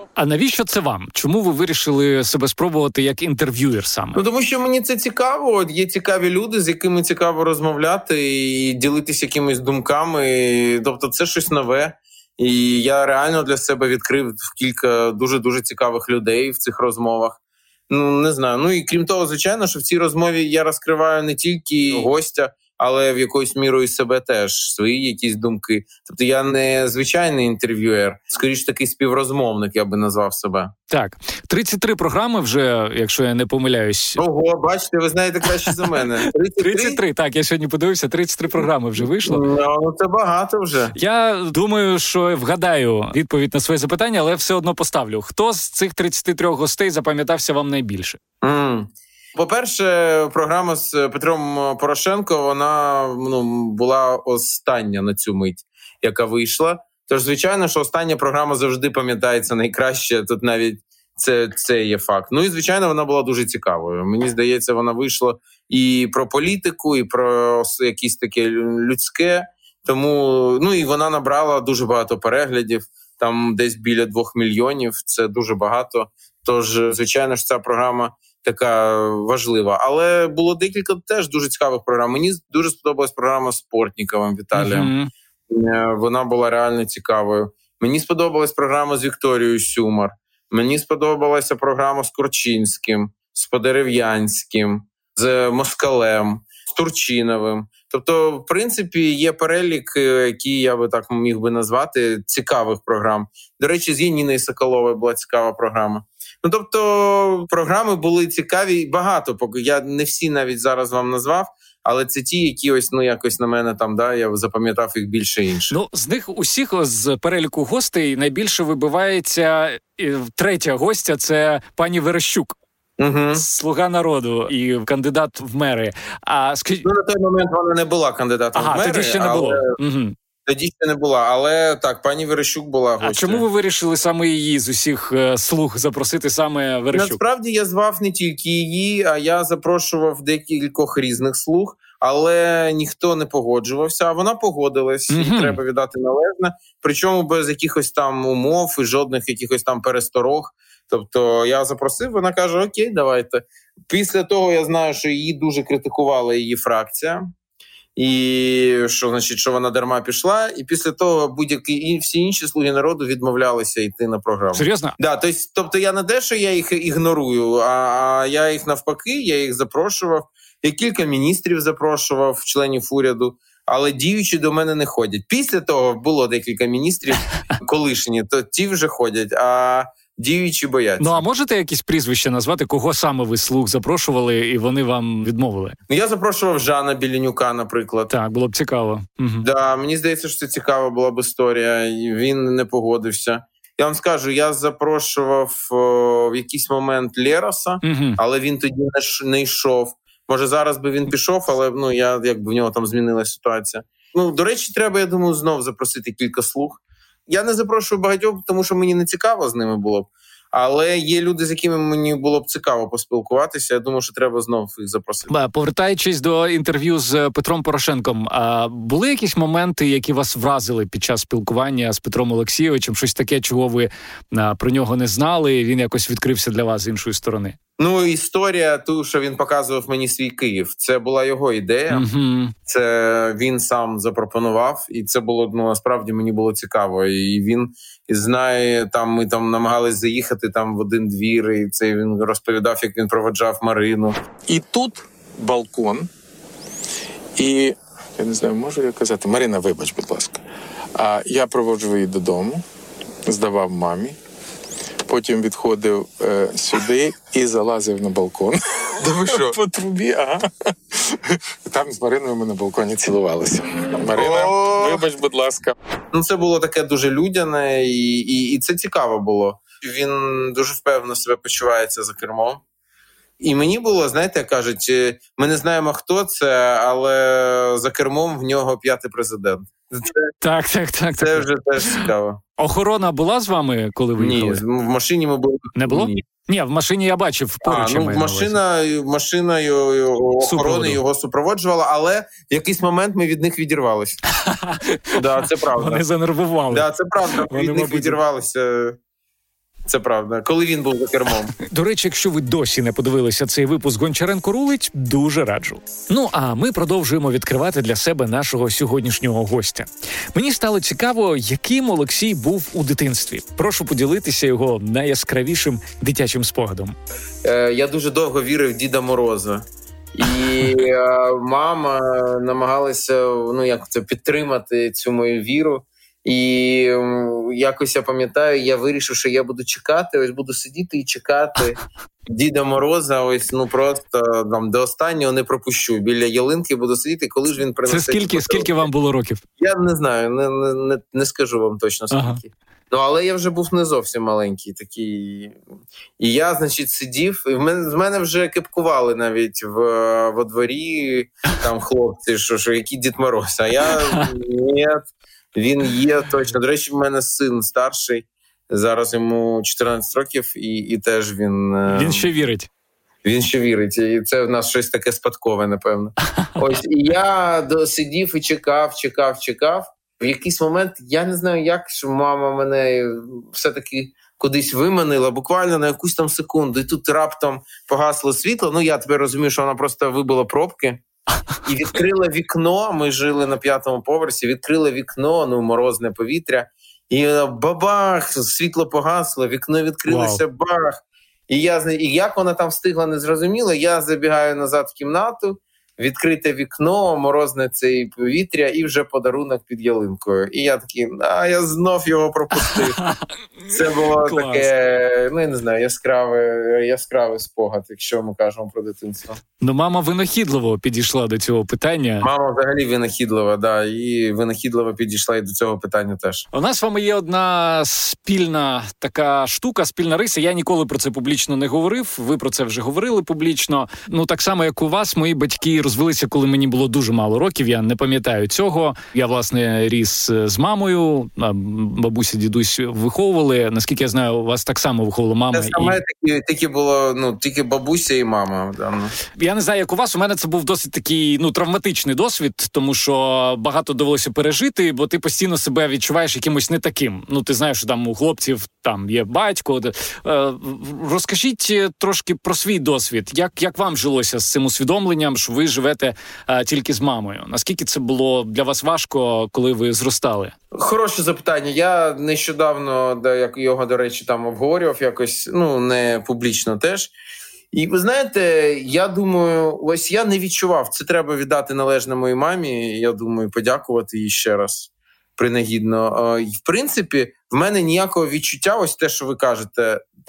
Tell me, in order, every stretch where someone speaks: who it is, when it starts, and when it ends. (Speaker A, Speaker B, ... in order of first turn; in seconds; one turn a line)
Speaker A: 0.1-4.2
Speaker B: 4.2-30.7
Speaker A: 30.9-34.2
Speaker B: 34.2-37.0
Speaker A: 36.6-39.4
Speaker B: 39.1-40.9
Speaker A: 41.0-48.2
Speaker B: 48.4-84.9
Speaker A: 84.5-85.1
Speaker B: 85.5-115.8
Speaker A: 115.7-122.6
Speaker B: 123.0-123.4
Speaker A: 123.3-126.9
Speaker B: 126.8-129.8
Speaker A: 128.5-130.2
Speaker B: 130.4-133.4
Speaker A: 133.0-137.2
Speaker B: 136.9-157.2
Speaker A: 145.1-145.6
Speaker B: 157.9-181.2
Speaker A: 164.5-164.9
Speaker A: 181.0-185.8
Speaker B: 185.9-188.1
Speaker A: 188.1-189.4
Speaker B: 189.4-215.3
Speaker A: 197.8-198.2
Speaker A: 215.3-227.6
Speaker B: 227.8-232.1
Speaker A: 231.9-232.5
Speaker B: 232.7-244.2
Speaker C: 244.5-246.1
Speaker C: 247.3-250.4
Speaker C: 250.9-252.6
Speaker C: 253.2-254.2
Speaker C: 255.1-265.7
Speaker B: 259.0-259.5
Speaker B: 264.1-265.0
Speaker B: 266.1-272.6
Speaker B: 273.4-280.3
Speaker A: 280.4-284.6
Speaker B: 281.2-282.4
Speaker B: 284.2-286.2
Speaker A: 285.8-288.6
Speaker B: 287.6-294.2
Speaker A: 290.4-291.0
Speaker A: 294.4-298.2
Speaker B: 295.1-296.0
Speaker B: 296.7-299.0
Speaker B: 299.9-301.5
Speaker A: 301.6-316.9
Speaker B: 317.4-319.6
Speaker B: 320.1-338.9
Speaker A: 337.9-339.4
Speaker B: 339.6-345.6
Speaker A: 342.1-342.4
Speaker B: 346.2-362.3
Speaker A: 361.9-362.7
Speaker B: 363.2-381.0
Speaker B: 381.6-403.0
Speaker A: 390.1-390.4
Speaker A: 402.6-404.7
Speaker B: 403.7-409.4
Speaker A: 409.6-412.3
Speaker B: 412.2-416.4
Speaker A: 416.5-436.0
Speaker B: 435.5-439.1
Speaker A: 439.3-460.6
Speaker B: 460.7-467.1
Speaker B: 467.7-480.0